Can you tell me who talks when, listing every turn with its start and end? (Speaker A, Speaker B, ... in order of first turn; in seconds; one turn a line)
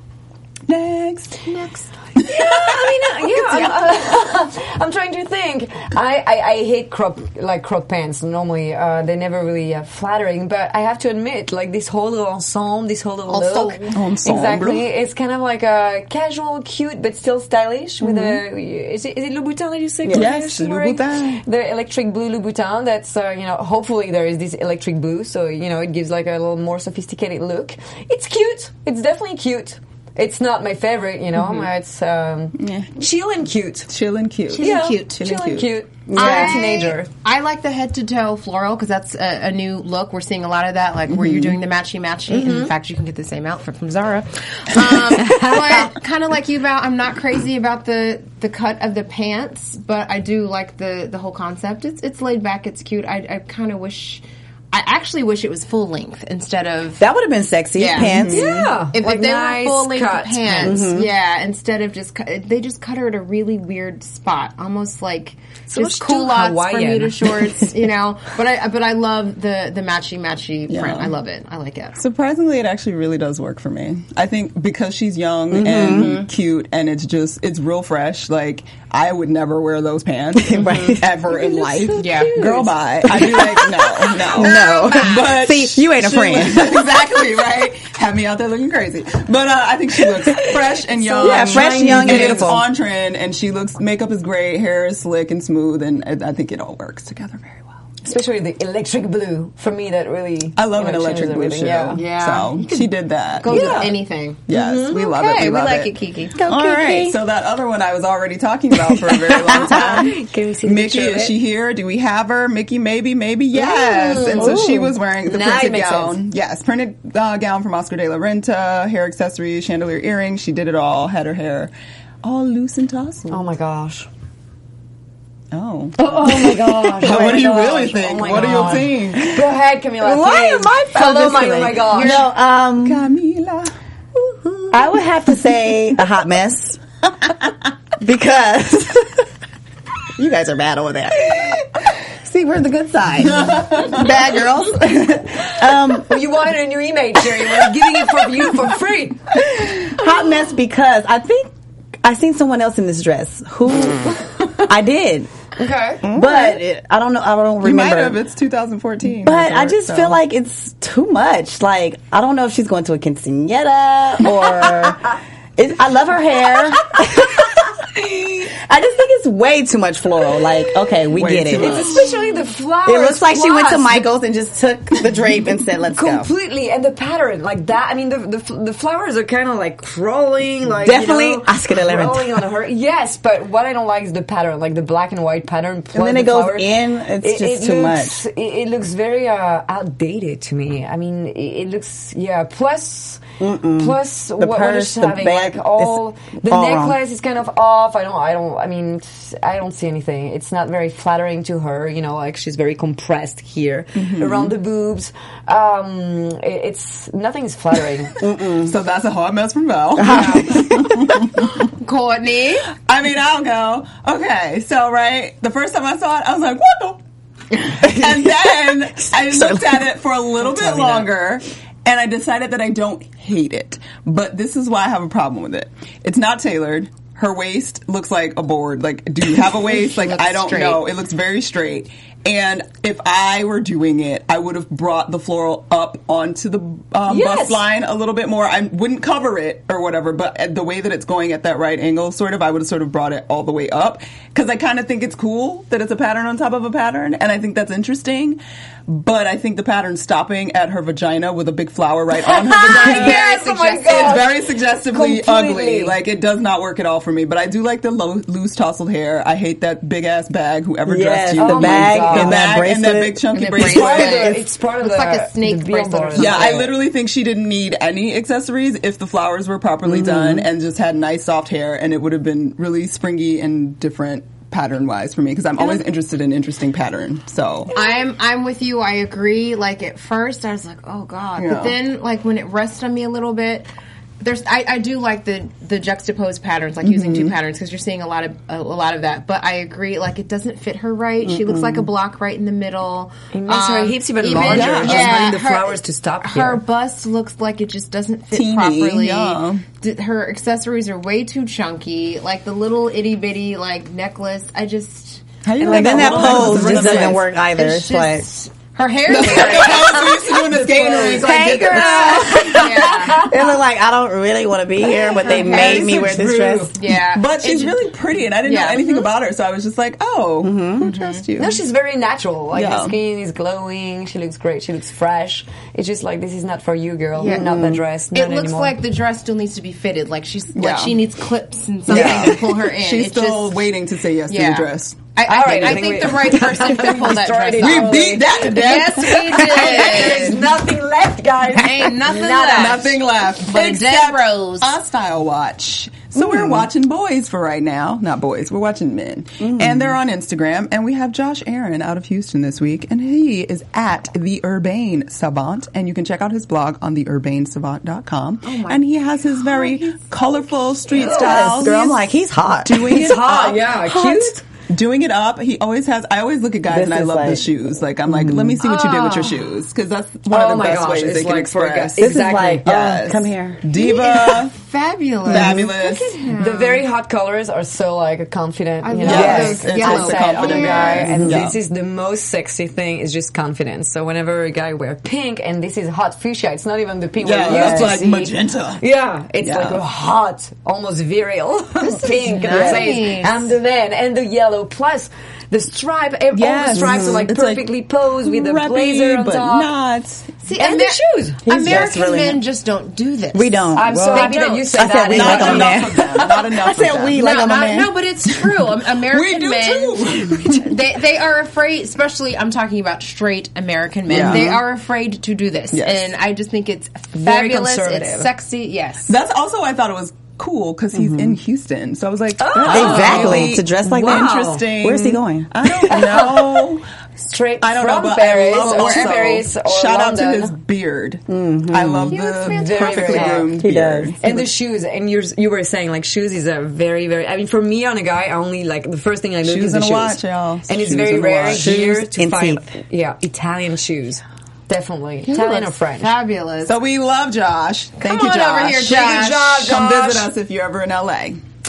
Speaker A: 0.7-1.5
Speaker B: 1.5-1.9
Speaker A: 2.2-3.3
Speaker C: 2.2-33.9
Speaker B: 13.3-13.9
Speaker A: 13.9-14.8
Speaker A: 18.0-18.4
Speaker D: 20.1-20.3
Speaker A: 20.1-21.4
Speaker A: 31.4-31.7
Speaker A: 32.6-32.9
Speaker A: 33.9-35.7
Speaker B: 34.5-35.4
Speaker C: 34.6-37.1
Speaker D: 36.1-36.6
Speaker B: 36.1-57.0
Speaker A: 41.1-41.6
Speaker C: 42.3-42.7
Speaker C: 45.1-45.9
Speaker D: 57.0-58.7
Speaker B: 57.8-58.3
Speaker A: 58.0-58.7
Speaker C: 58.3-60.9
Speaker B: 58.9-72.0
Speaker D: 60.6-61.1
Speaker C: 65.7-67.5
Speaker A: 70.7-71.1
Speaker A: 72.0-97.7
Speaker D: 75.5-76.2
Speaker D: 80.4-81.1
Speaker C: 80.7-83.4
Speaker B: 82.0-82.3
Speaker D: 83.0-87.4
Speaker B: 84.4-85.3
Speaker C: 90.3-92.6
Speaker D: 91.2-92.7
Speaker C: 98.0-102.1
Speaker A: 100.6-104.0
Speaker B: 101.9-106.4
Speaker C: 103.5-103.8
Speaker A: 104.5-121.7
Speaker C: 104.5-105.0
Speaker D: 106.3-107.2
Speaker D: 108.9-110.1
Speaker C: 109.3-111.3
Speaker C: 113.5-116.2
Speaker D: 114.3-114.9
Speaker A: 122.2-123.4
Speaker C: 123.3-124.1
Speaker A: 125.5-129.4
Speaker C: 126.0-132.3
Speaker D: 127.0-127.4
Speaker D: 130.0-133.1
Speaker A: 131.9-133.7
Speaker C: 134.2-134.7
Speaker D: 134.7-136.8
Speaker D: 138.0-139.2
Speaker D: 140.2-146.4
Speaker A: 143.2-144.2
Speaker C: 145.9-149.4
Speaker D: 149.6-151.5
Speaker D: 152.0-155.3
Speaker C: 155.6-156.0
Speaker A: 156.0-156.6
Speaker D: 156.0-158.2
Speaker A: 157.6-160.2
Speaker D: 159.2-167.7
Speaker C: 166.9-167.4
Speaker C: 168.0-168.5
Speaker D: 168.4-172.1
Speaker C: 170.7-174.1
Speaker A: 171.1-172.2
Speaker D: 172.8-176.3
Speaker C: 175.9-193.2
Speaker D: 180.8-182.4
Speaker D: 185.9-188.2
Speaker D: 193.4-197.0
Speaker C: 193.7-208.2
Speaker A: 204.0-204.5
Speaker D: 208.2-208.7
Speaker A: 208.6-211.7
Speaker D: 210.0-211.1
Speaker B: 210.1-210.7
Speaker B: 211.8-212.7
Speaker A: 212.9-217.0
Speaker A: 217.5-253.2
Speaker D: 219.3-219.8
Speaker C: 220.5-221.1
Speaker B: 229.6-230.8
Speaker C: 237.1-237.7
Speaker C: 252.1-256.0
Speaker B: 252.6-254.3
Speaker A: 253.9-264.3
Speaker D: 260.9-263.2
Speaker C: 261.4-262.6
Speaker B: 263.3-266.7
Speaker C: 263.5-266.7
Speaker A: 266.1-277.7
Speaker D: 269.9-270.5
Speaker B: 277.7-283.7
Speaker A: 281.4-281.8
Speaker B: 284.2-311.0
Speaker A: 286.8-287.3
Speaker D: 291.2-291.9
Speaker C: 293.3-296.6
Speaker A: 294.4-295.3
Speaker A: 298.3-299.6
Speaker A: 305.4-307.2
Speaker D: 305.6-308.3
Speaker A: 309.1-312.6
Speaker C: 310.5-313.4
Speaker D: 310.6-316.7
Speaker B: 312.1-313.3
Speaker C: 315.0-316.8
Speaker B: 315.2-316.0
Speaker A: 315.5-315.9
Speaker B: 316.8-317.9
Speaker A: 317.1-321.6
Speaker B: 318.4-319.1
Speaker D: 320.4-320.9
Speaker B: 320.8-321.2
Speaker C: 321.4-328.8
Speaker A: 322.5-323.0
Speaker B: 327.2-327.6
Speaker D: 327.3-327.8
Speaker B: 328.1-333.7
Speaker A: 330.6-331.0
Speaker C: 331.9-332.4
Speaker A: 331.9-335.8
Speaker B: 334.3-340.4
Speaker C: 335.3-343.0
Speaker A: 337.6-340.4
Speaker B: 341.6-344.8
Speaker A: 342.5-362.1
Speaker D: 346.1-346.7
Speaker D: 349.4-350.0
Speaker B: 358.4-360.0
Speaker C: 360.9-361.8
Speaker D: 360.9-363.2
Speaker A: 362.6-363.7
Speaker C: 362.8-364.4
Speaker D: 363.9-364.4
Speaker A: 364.7-374.5
Speaker D: 366.7-367.5
Speaker D: 368.1-368.6
Speaker B: 368.6-369.5
Speaker C: 370.3-372.7
Speaker D: 372.0-373.7
Speaker B: 373.7-376.9
Speaker A: 375.3-376.1
Speaker C: 375.4-375.6
Speaker C: 376.4-399.7
Speaker B: 378.8-381.3
Speaker A: 379.0-381.6
Speaker D: 379.1-379.6
Speaker D: 381.2-381.5
Speaker A: 387.2-388.8
Speaker D: 387.5-388.2
Speaker A: 389.4-389.8
Speaker A: 391.9-392.9
Speaker B: 392.1-393.6
Speaker A: 396.3-397.6
Speaker D: 396.7-397.2
Speaker A: 398.2-400.3
Speaker B: 400.4-404.9
Speaker C: 400.6-401.4
Speaker D: 401.4-402.4
Speaker D: 403.3-408.1
Speaker C: 403.8-406.3
Speaker A: 405.1-407.2
Speaker B: 407.2-419.1
Speaker A: 409.1-410.7
Speaker A: 414.1-414.6
Speaker D: 414.1-414.4
Speaker A: 415.7-416.1
Speaker C: 417.2-418.3
Speaker A: 419.1-426.8
Speaker D: 420.9-421.4
Speaker C: 422.4-424.7
Speaker D: 422.6-426.7
Speaker B: 422.9-423.3
Speaker C: 425.9-426.3
Speaker C: 427.2-430.5
Speaker A: 427.6-434.4
Speaker B: 428.5-429.2
Speaker D: 431.3-432.2
Speaker B: 432.1-433.6
Speaker C: 432.5-433.6
Speaker D: 433.6-434.1
Speaker C: 434.2-446.1
Speaker A: 439.4-441.7
Speaker D: 441.5-442.7
Speaker B: 445.3-446.7
Speaker A: 446.6-451.4
Speaker B: 448.0-449.4
Speaker C: 448.9-450.3